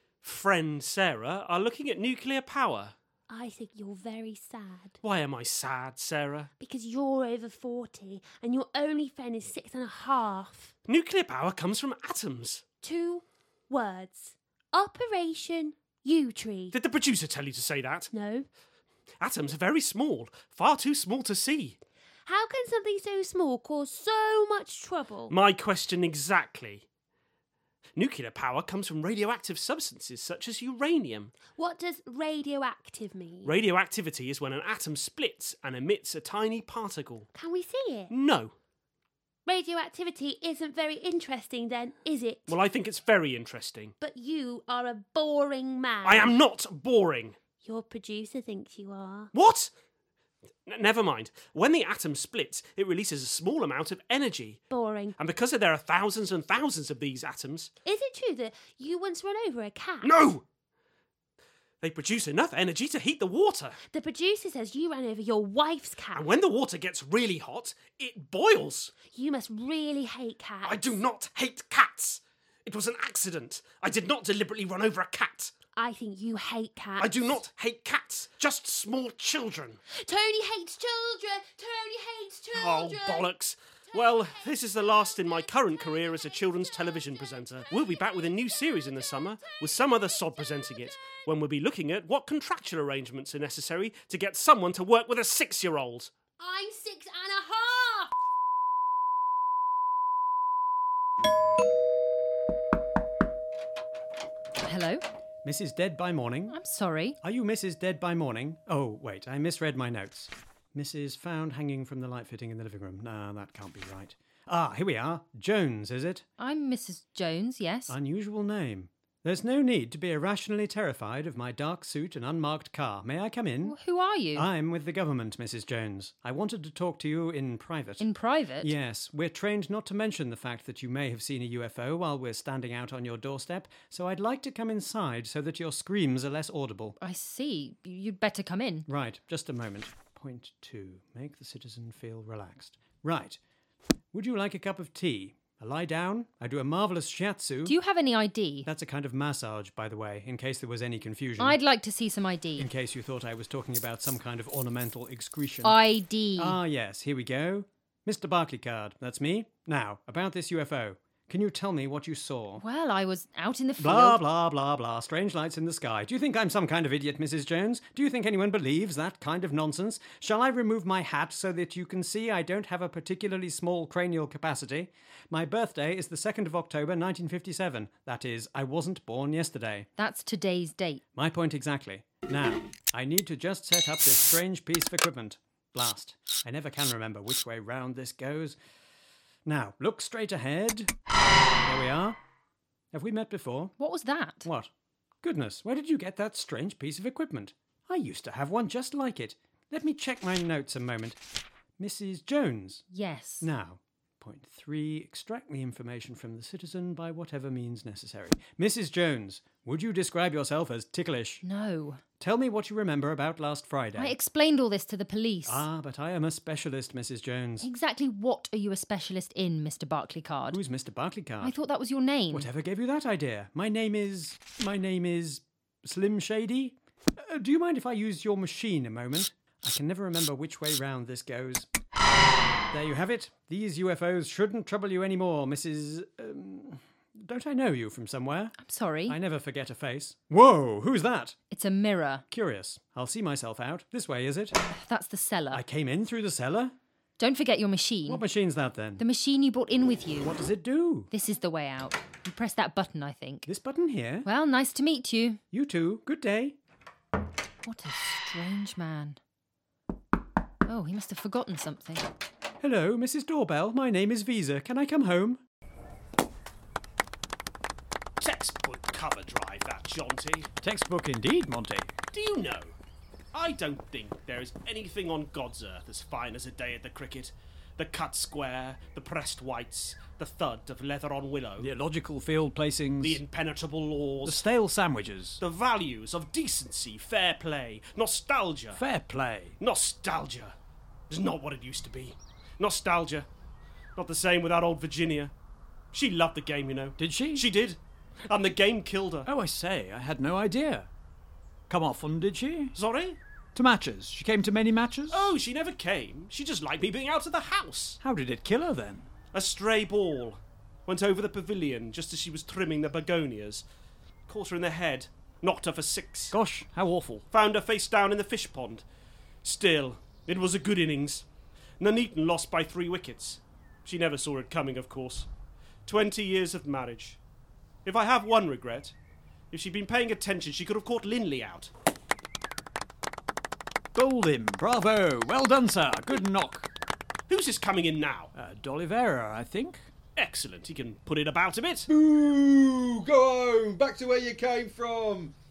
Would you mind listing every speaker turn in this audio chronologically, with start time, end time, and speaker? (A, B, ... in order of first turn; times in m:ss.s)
0:00.2-0:02.9 A
0:03.3-0:05.0 B
0:05.0-0:06.5 A
0:06.6-0:10.7 B
0:10.9-0:12.6 A
0:12.8-0:16.8 B
0:16.7-0:18.1 A
0:18.1-0:18.5 B
0:19.2-0:21.8 A
0:22.3-0:25.4 B
0:25.3-0:26.8 A
0:28.0-0:31.4 A
0:31.5-0:33.5 B
0:33.4-0:37.3 A
0:37.3-0:38.1 B
0:38.1-0:38.5 A
0:39.5-0:42.6 B
0:42.5-0:44.0 A
0:44.0-0:46.3 B
0:46.0-0:47.4 A
0:47.6-0:49.3 B
0:49.3-0:49.7 A
0:50.7-0:54.6 A
0:54.7-0:55.2 B
0:55.2-0:57.7 A
0:57.8-1:00.3 B
1:00.0-1:00.4 A
1:01.8-1:03.8 A
1:03.9-1:06.3 B
1:06.1-1:09.0 A
1:09.0-1:11.0 B
1:10.6-1:15.5 A
1:15.8-1:17.4 B
1:17.0-1:19.8 A
1:19.9-1:23.3 B
1:22.5-1:36.1 A
1:23.9-1:31.2 B
1:36.4-1:38.1 B
1:44.6-1:45.0 C
1:45.4-1:46.6 D
1:46.5-1:47.2 C
1:47.2-1:56.2 D
1:56.4-1:57.9 C
1:57.9-2:03.8 D
2:03.6-2:04.5 C
2:04.4-2:08.0 D
2:08.0-2:08.7 C
2:08.6-2:17.0 D
2:17.0-2:18.9 C
2:18.9-2:23.4 D
2:24.1-2:27.7 D
2:27.7-2:28.7 C
2:28.7-2:31.6 D
2:31.4-2:32.7 C
2:32.6-2:35.8 D
2:35.6-2:36.6 C
2:36.4-2:42.6 D
2:42.6-2:44.2 C
2:43.8-2:59.9 D
3:00.0-3:01.0 C
3:01.2-3:08.6 D
3:09.5-3:10.9 D
3:11.7-3:12.2 D
3:12.9-3:13.7 D
3:13.8-3:14.5 C
3:15.2-3:21.2 D
3:21.8-3:22.8 D
3:22.9-3:23.5 C
3:23.4-3:31.4 D
3:31.4-3:32.0 C
3:32.2-3:34.2 D
3:34.0-3:35.7 C
3:35.5-3:37.7 D
3:37.6-3:40.6 C
3:40.5-3:41.5 D
3:41.4-3:42.5 C
3:42.3-3:46.7 D
3:47.3-3:51.7 D
3:52.7-3:58.5 D
3:58.6-3:59.2 C
3:59.1-4:01.3 D
4:01.5-4:02.2 C
4:02.3-4:04.5 D
4:04.8-4:05.6 C
4:05.5-4:06.7 D
4:07.2-4:08.2 C
4:08.1-4:09.0 D
4:09.0-4:10.3 C
4:10.2-4:11.1 D
4:11.1-4:13.5 C
4:13.5-4:14.3 D
4:14.2-4:15.4 C
4:15.5-4:16.6 D
4:17.6-4:19.2 C
4:20.7-4:22.1 C
4:22.6-4:25.4 D
4:28.2-4:30.5 A
4:30.6-4:31.9 D
4:32.1-4:32.8 A
4:33.3-4:41.7 A
4:41.6-4:43.2 D
4:43.0-4:44.4 A
4:44.2-4:45.4 D
4:45.4-4:48.8 A
4:48.7-4:49.6 D
4:49.6-4:50.5 A
4:51.1-4:53.3 A
4:54.0-4:55.3 A
4:55.9-4:59.3 A
4:57.0-4:57.4 D
4:59.3-5:00.9 D
5:01.7-5:02.7 D
5:02.8-5:03.2 A
5:03.6-5:05.3 D
5:05.1-5:08.0 A
5:08.0-5:09.1 D
5:09.3-5:13.6 A
5:14.3-5:16.4 A
5:16.3-5:17.2 D
5:17.3-5:18.8 A
5:19.4-5:21.3 A
5:21.8-5:25.3 A
5:25.9-5:27.2 A
5:27.8-5:29.0 A
5:29.5-5:31.7 A
5:34.0-5:36.6 D
5:37.3-5:38.3 A
5:38.4-5:39.8 D
5:40.2-5:41.9 A
5:41.9-5:45.3 E